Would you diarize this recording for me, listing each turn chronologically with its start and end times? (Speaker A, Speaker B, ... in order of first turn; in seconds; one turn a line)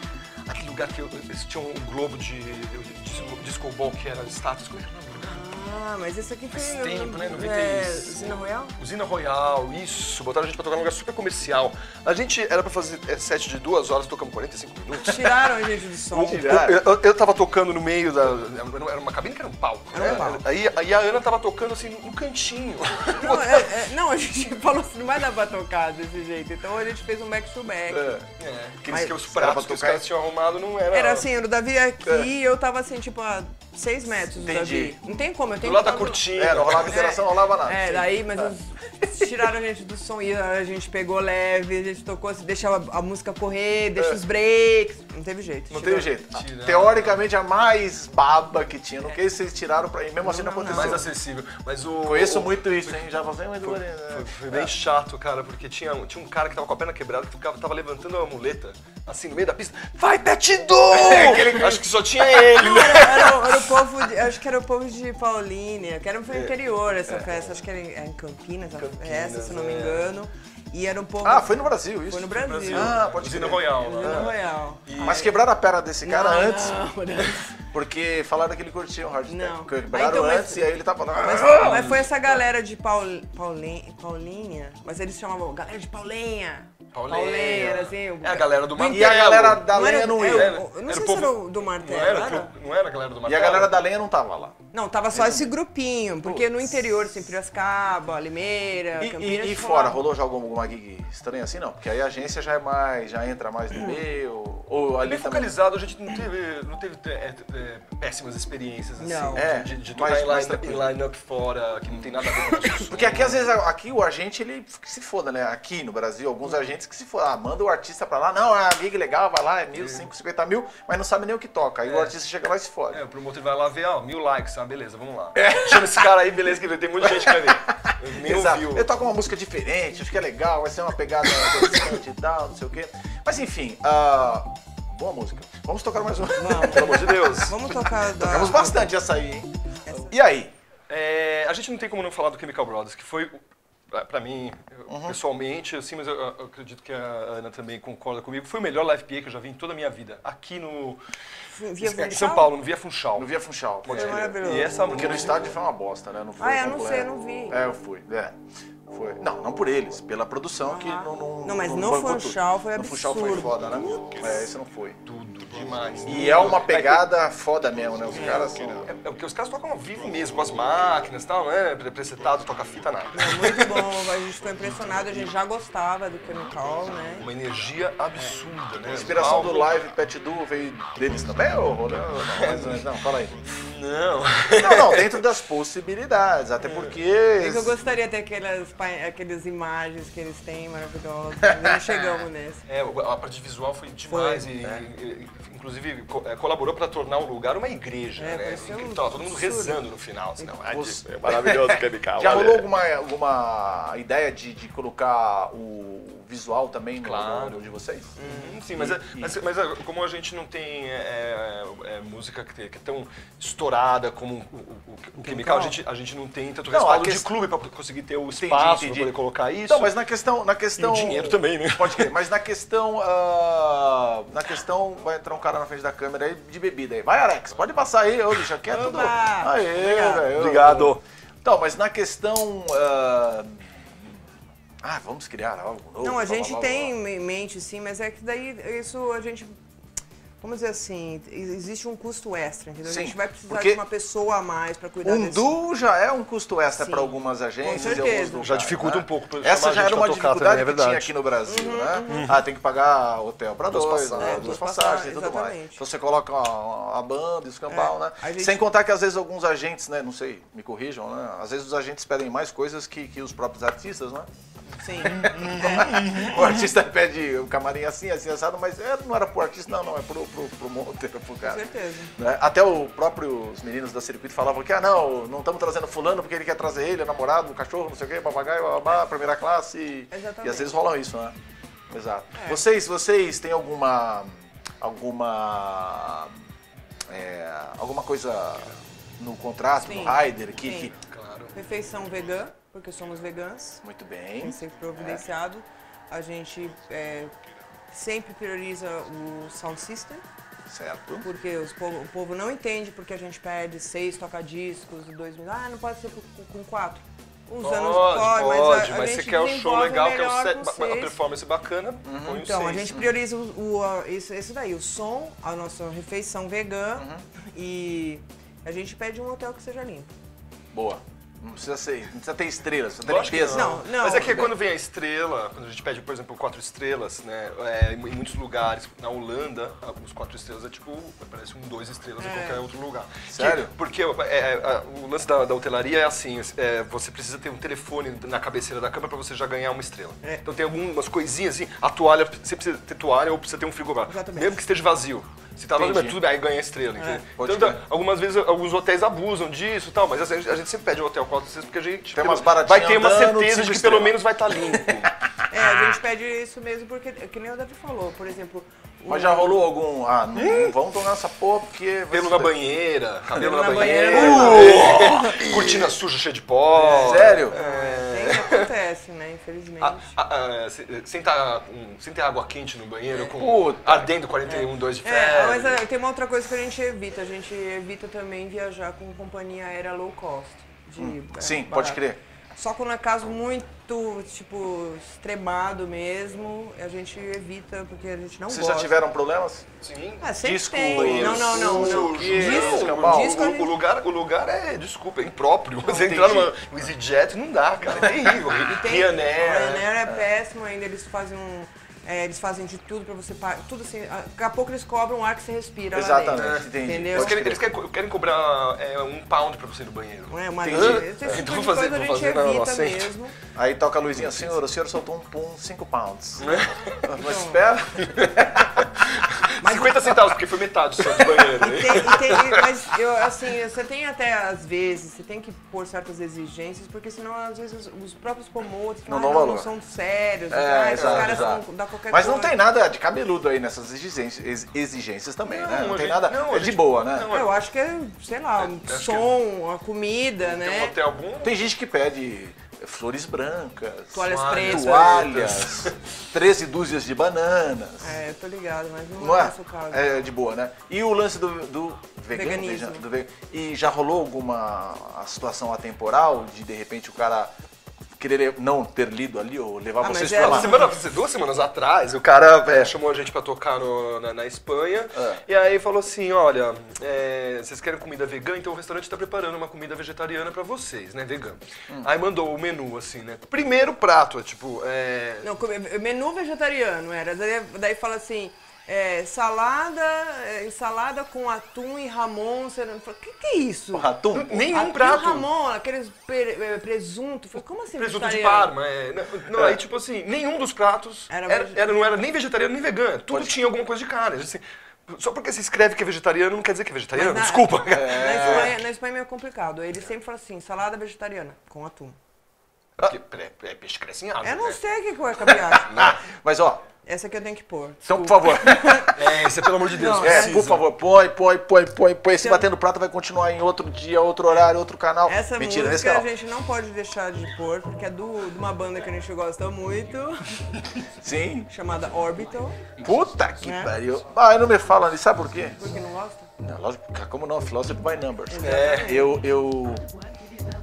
Speaker A: 0.5-5.4
Speaker B: 5.2-8.7
Speaker A: 6.5-15.4
Speaker B: 14.9-16.6
Speaker A: 16.1-23.7
Speaker C: 16.3-16.8
Speaker B: 19.9-20.4
Speaker B: 23.2-28.2
Speaker C: 27.9-28.2
Speaker A: 28.4-31.3
Speaker B: 28.9-29.1
Speaker C: 28.9-30.0
Speaker B: 30.9-46.1
Speaker C: 34.3-35.0
Speaker A: 35.6-37.1
Speaker C: 36.3-39.4
Speaker C: 44.0-44.2
Speaker C: 45.7-51.0
Speaker A: 46.3-47.2
Speaker B: 50.2-51.1
Speaker A: 50.7-53.1
Speaker C: 52.0-54.7
Speaker A: 53.6-63.8
Speaker C: 60.9-62.5
Speaker B: 62.5-73.0
Speaker C: 67.1-67.5
Speaker A: 68.7-70.1
Speaker C: 71.2-74.3
Speaker A: 72.4-74.3
Speaker B: 73.7-75.4
Speaker A: 74.9-75.2
Speaker C: 75.0-76.9
Speaker B: 76.0-77.6
Speaker C: 77.7-82.0
Speaker B: 79.3-92.5
Speaker A: 81.6-81.9
Speaker A: 86.9-89.7
Speaker C: 88.8-90.6
Speaker A: 90.2-93.8
Speaker C: 93.2-94.6
Speaker B: 94.7-100.0
Speaker C: 95.1-95.5
Speaker C: 96.2-96.7
Speaker C: 99.0-105.5
Speaker B: 103.7-104.0
Speaker A: 105.0-113.5
Speaker B: 109.0-109.5
Speaker C: 109.3-110.9
Speaker C: 111.9-112.2
Speaker C: 112.8-123.0
Speaker A: 119.8-120.0
Speaker A: 121.8-122.1
Speaker A: 122.9-128.9
Speaker C: 125.4-125.9
Speaker C: 127.0-140.5
Speaker A: 131.3-131.9
Speaker B: 136.4-138.9
Speaker A: 136.6-137.5
Speaker B: 139.8-140.1
Speaker A: 140.9-151.0
Speaker C: 144.9-145.2
Speaker B: 151.5-152.5
Speaker A: 151.8-153.3
Speaker C: 153.2-165.0
Speaker A: 153.8-155.6
Speaker B: 153.9-155.1
Speaker B: 156.4-157.6
Speaker B: 160.7-164.2
Speaker A: 165.1-167.1
Speaker C: 166.1-168.9
Speaker A: 168.1-173.8
Speaker B: 168.1-168.5
Speaker B: 173.1-177.3
Speaker A: 177.2-179.7
Speaker C: 178.9-183.4
Speaker A: 182.3-182.9
Speaker A: 183.4-185.2
Speaker C: 184.5-187.8
Speaker A: 186.6-186.9
Speaker B: 187.3-192.6
Speaker C: 191.5-191.9
Speaker A: 192.7-202.7
Speaker B: 194.1-194.5
Speaker B: 198.2-199.8
Speaker C: 200.7-208.1
Speaker A: 207.0-207.7
Speaker B: 208.2-208.6
Speaker A: 208.2-219.9
Speaker C: 208.7-209.3
Speaker B: 215.2-215.8
Speaker C: 216.7-217.3
Speaker C: 218.4-219.1
Speaker C: 219.7-233.7
Speaker A: 220.8-222.1
Speaker B: 228.7-230.3
Speaker A: 230.2-231.0
Speaker C: 234.8-236.9
Speaker B: 236.0-239.6
Speaker B: 240.4-245.5
Speaker C: 242.8-243.8
Speaker C: 245.0-264.3
Speaker B: 246.7-248.5
Speaker A: 247.7-251.1
Speaker B: 251.4-252.3
Speaker A: 252.1-252.4
Speaker A: 253.7-254.6
Speaker B: 254.2-255.8
Speaker B: 257.7-258.6
Speaker B: 264.8-265.9
Speaker C: 265.0-281.3
Speaker A: 265.0-266.6
Speaker B: 271.4-272.1
Speaker B: 280.1-280.8
Speaker C: 281.9-286.3
Speaker B: 282.3-282.6
Speaker C: 287.1-290.9
Speaker B: 289.8-290.9
Speaker A: 291.0-291.5
Speaker B: 291.5-293.8
Speaker C: 293.8-295.2
Speaker B: 294.4-297.3
Speaker B: 297.9-300.2
Speaker C: 300.7-301.2
Speaker B: 301.2-311.2
Speaker A: 307.6-313.0
Speaker C: 312.0-313.1
Speaker B: 312.4-320.1
Speaker C: 320.7-324.5
Speaker A: 323.0-355.1
Speaker B: 323.5-324.5
Speaker B: 332.2-332.6
Speaker C: 333.3-333.7
Speaker B: 344.1-344.6
Speaker C: 345.7-346.2
Speaker B: 347.0-347.2
Speaker C: 347.4-347.8
Speaker C: 352.1-355.9
Speaker B: 355.5-359.6
Speaker C: 359.1-362.5
Speaker A: 360.3-360.8
Speaker A: 362.1-368.7
Speaker B: 363.3-365.4
Speaker C: 363.7-365.9
Speaker C: 366.7-367.6
Speaker B: 367.5-370.1
Speaker A: 369.8-375.8
Speaker C: 373.2-374.1
Speaker B: 374.5-382.0
Speaker C: 381.0-382.2
Speaker B: 382.6-388.9
Speaker C: 388.5-389.7
Speaker A: 389.8-390.3
Speaker B: 390.2-393.7
Speaker C: 390.4-393.4
Speaker A: 390.9-399.9
Speaker C: 395.9-396.5
Speaker B: 397.8-407.4
Speaker C: 405.9-407.6
Speaker A: 406.3-413.1
Speaker B: 410.3-413.3
Speaker C: 410.6-411.4
Speaker C: 413.5-418.5
Speaker A: 416.4-417.1
Speaker B: 417.2-417.6
Speaker A: 418.0-422.7
Speaker B: 419.6-420.3
Speaker B: 421.5-432.6
Speaker C: 429.1-429.7
Speaker C: 430.5-437.3
Speaker A: 430.9-431.5
Speaker A: 435.4-437.6
Speaker B: 437.3-440.9
Speaker A: 438.6-439.3
Speaker A: 440.4-441.5
Speaker C: 441.4-448.2
Speaker B: 444.1-445.3
Speaker A: 444.2-445.9
Speaker B: 448.0-450.3
Speaker C: 449.2-457.5
Speaker B: 452.3-453.0
Speaker C: 458.2-460.8
Speaker B: 460.0-460.9
Speaker A: 460.3-475.5
Speaker C: 465.1-465.4
Speaker B: 475.4-484.1
Speaker C: 483.9-484.7
Speaker A: 484.3-485.4
Speaker B: 484.7-488.7
Speaker A: 488.0-498.7
Speaker B: 491.3-492.1
Speaker C: 493.3-493.6
Speaker B: 497.1-502.2
Speaker C: 497.9-498.7
Speaker A: 503.0-504.8
Speaker B: 504.4-506.0
Speaker A: 505.6-506.1
Speaker C: 505.9-506.8
Speaker B: 507.0-509.2
Speaker C: 508.0-509.2
Speaker A: 509.1-510.9
Speaker B: 509.9-510.6
Speaker C: 510.2-516.3
Speaker B: 515.3-520.6
Speaker C: 521.2-521.7
Speaker B: 521.7-522.9
Speaker C: 523.0-525.8
Speaker B: 523.6-524.0
Speaker B: 525.7-526.5
Speaker C: 526.6-530.1
Speaker B: 528.5-529.3
Speaker A: 528.6-529.3